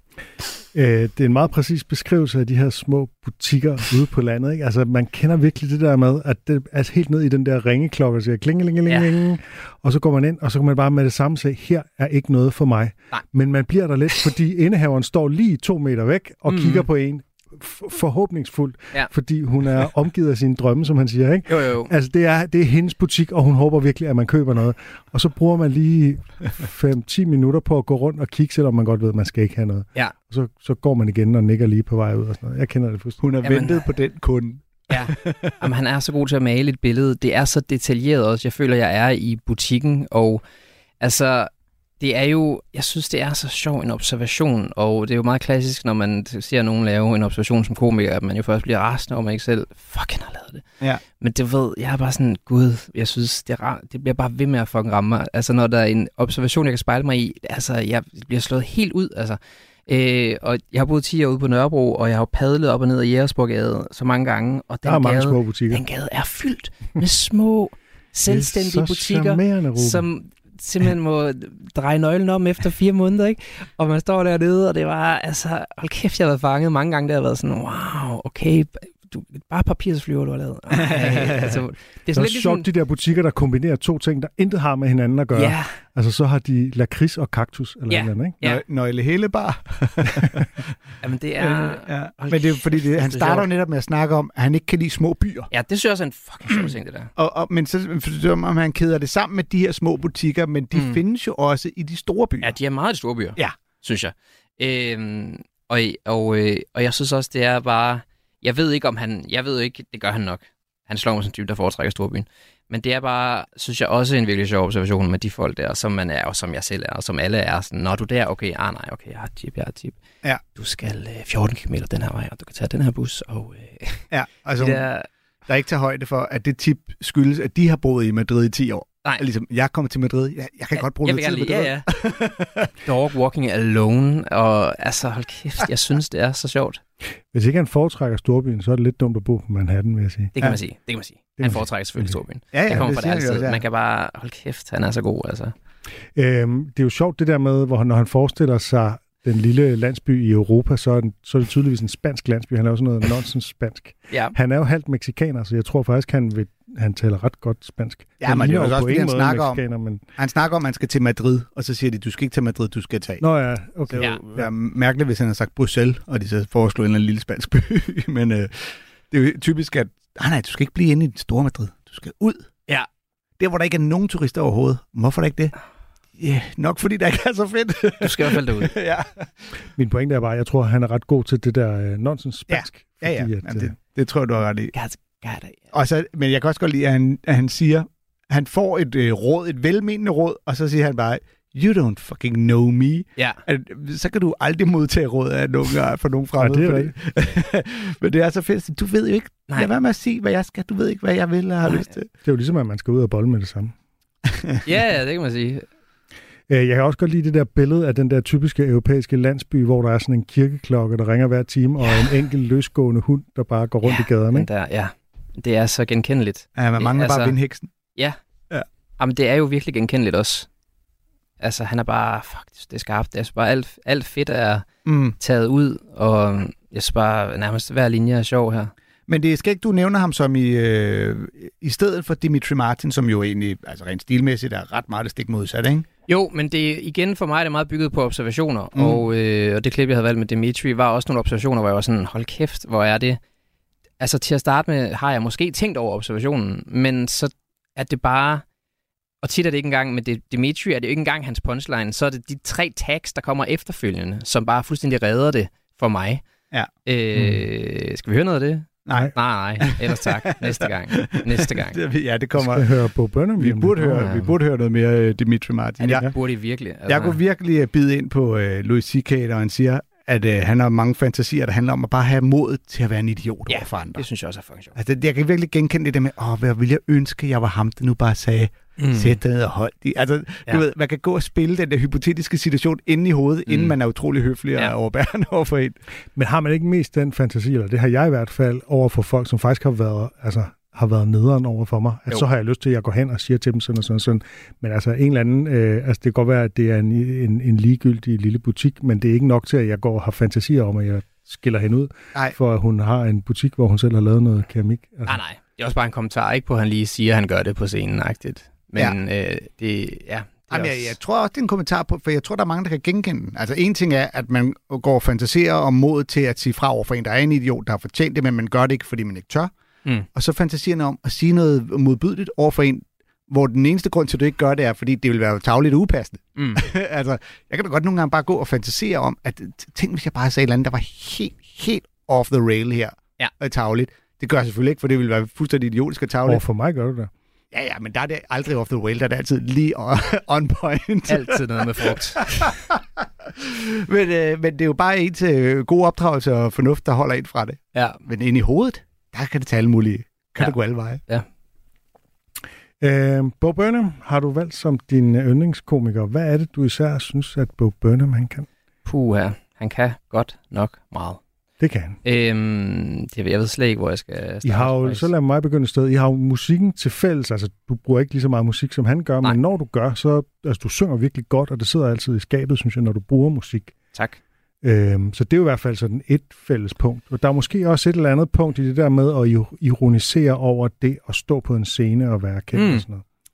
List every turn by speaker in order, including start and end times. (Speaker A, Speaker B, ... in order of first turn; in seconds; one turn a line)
Speaker A: 0.7-33.2
Speaker B: 8.8-9.1
Speaker B: 16.5-16.9
Speaker B: 21.5-21.9
Speaker C: 33.2-35.5
Speaker B: 33.4-33.8
Speaker B: 34.9-40.4
Speaker B: 41.0-50.6
Speaker B: 51.2-82.7
Speaker A: 64.8-65.8
Speaker A: 68.3-70.1
Speaker C: 80.9-81.6
Speaker A: 82.1-88.4
Speaker B: 85.3-85.7
Speaker B: 87.9-88.6
Speaker C: 88.4-90.6
Speaker B: 91.0-93.5
Speaker C: 91.4-95.5
Speaker B: 95.5-97.1
Speaker C: 97.2-102.5
Speaker B: 100.7-101.0
Speaker B: 102.4-120.0
Speaker B: 120.5-124.1
Speaker C: 124.1-124.8
Speaker B: 124.6-125.0
Speaker C: 125.5-132.7
Speaker B: 130.8-131.9
Speaker B: 132.8-136.8
Speaker A: 137.3-140.3
Speaker B: 140.3-145.5
Speaker A: 141.4-142.2
Speaker C: 142.5-143.6
Speaker A: 146.1-160.0
Speaker B: 154.1-154.3
Speaker C: 158.2-159.6
Speaker C: 160.2-163.2
Speaker A: 163.2-164.5
Speaker C: 163.9-172.5
Speaker C: 173.4-175.5
Speaker C: 176.2-179.3
Speaker B: 178.0-178.7
Speaker A: 179.7-183.7
Speaker C: 182.5-184.7
Speaker B: 184.7-185.6
Speaker C: 185.7-202.1
Speaker B: 193.2-193.4
Speaker A: 196.4-196.9
Speaker A: 202.2-203.7
Speaker B: 204.6-205.7
Speaker A: 206.5-214.5
Speaker B: 213.8-217.3
Speaker C: 216.5-217.7
Speaker B: 219.0-220.5
Speaker B: 221.4-228.7
Speaker C: 224.8-225.2
Speaker C: 229.1-235.8
Speaker B: 236.1-243.2
Speaker C: 238.7-239.0
Speaker B: 244.0-248.4
Speaker B: 249.2-256.2
Speaker B: 256.8-261.8
Speaker A: 257.1-257.4
Speaker C: 258.9-262.8
Speaker A: 262.4-264.1
Speaker C: 263.4-266.1
Speaker B: 263.9-264.3
Speaker B: 265.8-267.2
Speaker C: 266.9-274.1
Speaker B: 273.5-274.7
Speaker C: 274.7-285.8
Speaker B: 278.8-279.1
Speaker B: 283.5-283.8
Speaker A: 286.1-305.2
Speaker B: 305.1-310.9
Speaker C: 310.5-319.5
Speaker C: 320.1-336.4
Speaker B: 326.4-326.6
Speaker A: 336.2-337.1
Speaker C: 337.5-342.8
Speaker B: 341.1-342.3
Speaker C: 343.4-351.0
Speaker B: 350.4-351.2
Speaker A: 352.8-358.5
Speaker B: 358.8-361.2
Speaker A: 361.6-361.9
Speaker B: 362.0-365.1
Speaker A: 364.4-373.8
Speaker B: 373.9-374.2
Speaker A: 374.6-383.0
Speaker B: 382.5-382.8